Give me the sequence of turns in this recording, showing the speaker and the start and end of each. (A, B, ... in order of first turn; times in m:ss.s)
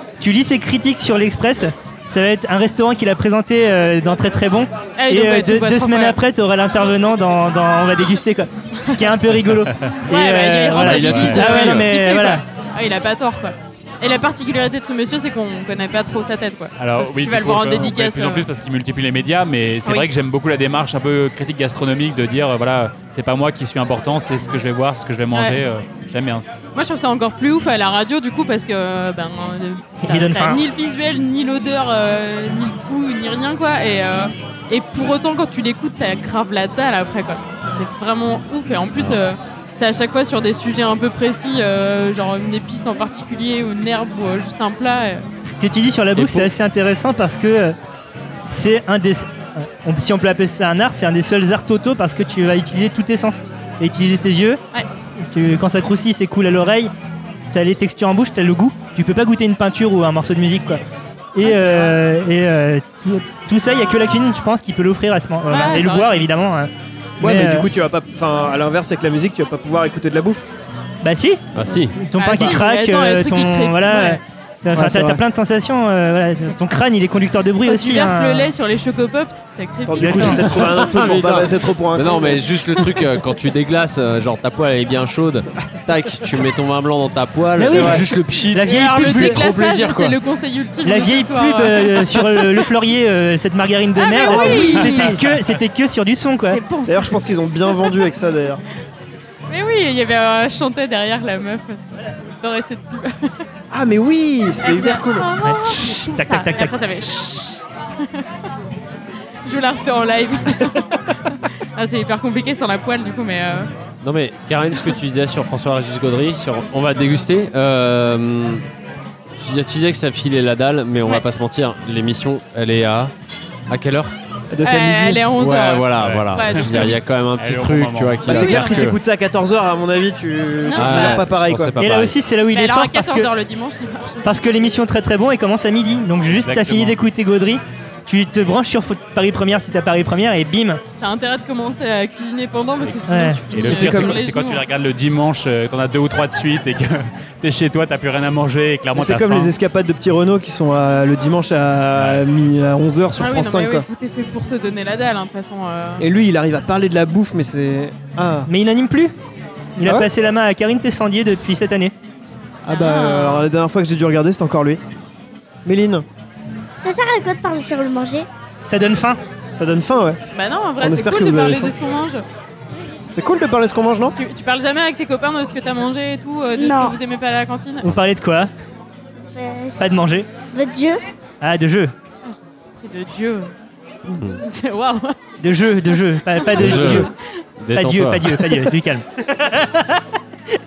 0:00.2-0:12.4 A
0:05.0-0:06.2 B
0:08.8-0:09.1 B
0:10.1-0:18.4 B
0:10.8-0:11.9 C
0:11.0-0:11.4 D
0:16.8-0:26.5 D
0:25.3-0:25.6 B
0:26.7-0:45.2 B
0:30.0-0:30.6 A
0:45.5-0:47.8 A
0:46.2-0:46.5 C
0:48.4-0:54.6 A
0:55.2-0:56.9 A
0:57.5-1:00.8 A
1:01.3-1:07.7 A
1:01.4-1:02.0 B
1:05.5-1:06.1 B
1:07.2-1:10.4 E
1:11.0-1:11.4 A
1:11.5-1:11.9 C
1:12.0-1:18.5 A
1:12.2-1:14.2 B
1:14.7-1:15.2 E
1:17.6-1:20.6 B
1:19.8-1:22.4 E
1:20.0-1:20.4 A
1:20.5-1:30.2 C
1:27.6-1:29.4 A
1:27.7-1:28.0 E
1:28.6-1:32.6 B
1:30.8-1:36.6 A
1:34.0-1:35.2 B
1:34.2-1:35.2 E
1:36.4-1:38.0 B
1:36.8-1:38.6 E
1:39.5-1:43.4 B
1:43.7-1:45.3 E
1:44.6-1:48.3 B
1:45.4-1:46.7 A
1:49.4-1:53.7 B
1:54.0-1:58.6 C
1:59.4-2:03.1 C
2:03.7-2:04.1 C
2:04.5-2:05.3 E
2:04.6-2:07.0 B
2:05.4-2:09.0 C
2:06.0-2:08.5 D
2:08.2-2:08.8 B
2:08.2-2:11.8 E
2:10.6-2:11.2 B
2:10.7-2:12.1 C
2:11.8-2:13.3 A
2:12.5-2:14.6 B
2:14.2-2:20.8 A
2:16.4-2:17.0 D
2:21.0-2:24.6 B
2:23.1-2:23.4 A
2:23.5-2:29.5 D
2:23.7-2:24.2 E
2:28.9-2:33.8 E
2:33.2-2:36.0 B
2:36.0-2:38.5 E
2:38.5-2:39.1 A
2:39.8-2:41.9 A
2:42.6-2:44.8 E
2:42.7-2:43.4 B
2:45.6-2:46.0 E
2:46.8-2:48.2 F
2:48.6-2:49.2 A
2:49.5-2:50.2 E
2:50.3-2:52.2 B
2:50.8-2:51.7 E
2:53.1-2:54.2 E
2:54.2-2:57.8 B
2:56.6-2:57.0 F
2:57.8-2:58.5 A
2:59.3-2:59.8 F
2:59.8-3:00.3 A
3:00.5-3:01.0 F
3:01.4-3:01.9 A
3:02.3-3:03.5 B
3:04.1-3:04.4 C
3:04.4-3:05.2 B
3:05.4-3:07.1 A
3:06.5-3:07.1 B
3:06.6-3:08.4 C
3:07.7-3:09.9 A